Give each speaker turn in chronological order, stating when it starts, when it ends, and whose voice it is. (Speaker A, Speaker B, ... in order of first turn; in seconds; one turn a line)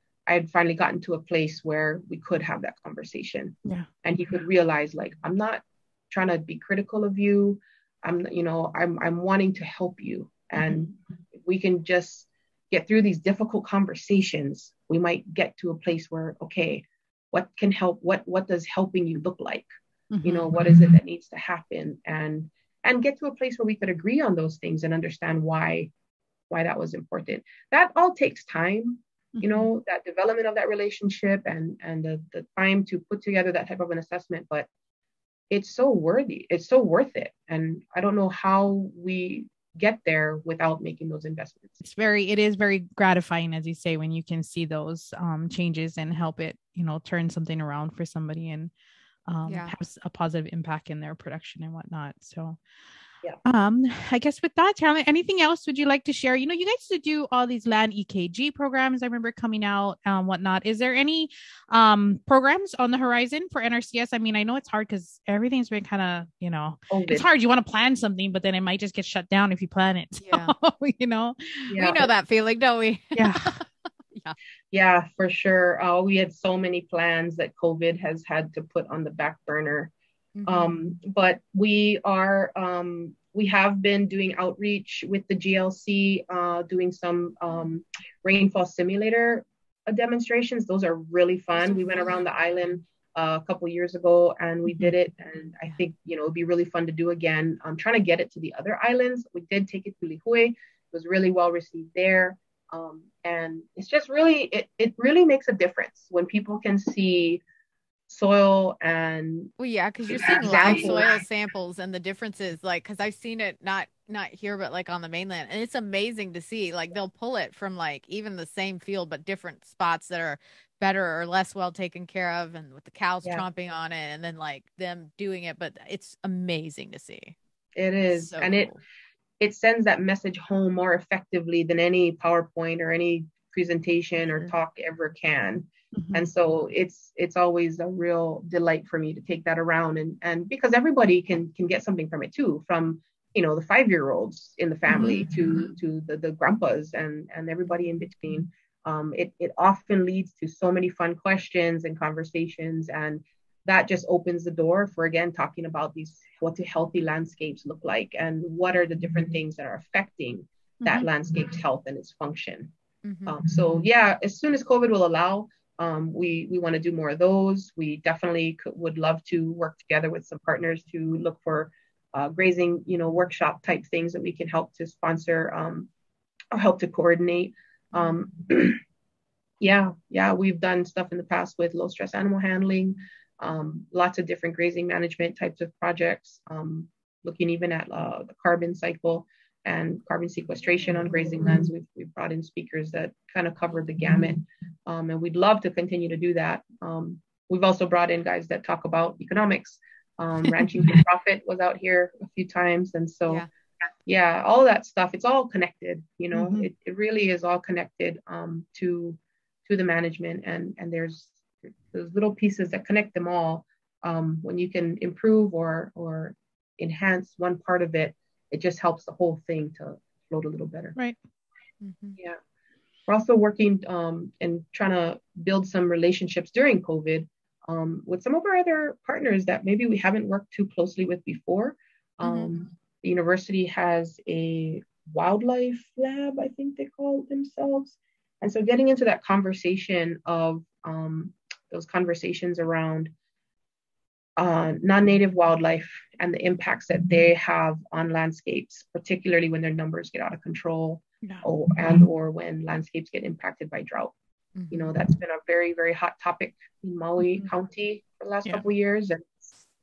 Speaker A: 0.3-19.7
Speaker B: 20.1-20.9
Speaker A: 20.2-25.9
Speaker A: 26.5-34.7
Speaker B: 29.4-29.6
Speaker A: 35.5-41.8
Speaker B: 41.8-48.7
Speaker B: 49.3-52.6
Speaker C: 49.5-49.7
Speaker B: 53.4-71.8
Speaker A: 66.9-67.3
Speaker C: 70.2-70.5
Speaker A: 71.7-72.1
Speaker C: 71.8-74.3
Speaker B: 73.1-73.5
Speaker A: 74.7-79.9
Speaker C: 80.3-80.7
Speaker A: 80.5-107.4
Speaker C: 91.6-92.3
Speaker A: 108.1-109.5
Speaker C: 109.6-127.3
Speaker A: 110.1-111.2
Speaker A: 127.8-128.7
Speaker C: 128.1-128.8
Speaker A: 129.4-162.7
Speaker B: 135.9-136.3
Speaker B: 144.9-145.2
Speaker B: 160.8-161.1
Speaker C: 163.0-163.3
Speaker A: 163.2-175.9
Speaker A: 176.5-178.8
Speaker A: 179.6-203.4
Speaker A: 204.1-211.3
Speaker B: 206.3-206.7
Speaker A: 211.9-220.9
Speaker C: 221.8-222.2
Speaker A: 223.1-243.1
Speaker C: 232.2-232.5
Speaker A: 244.4-254.1
Speaker C: 254.5-254.9
Speaker A: 254.7-259.5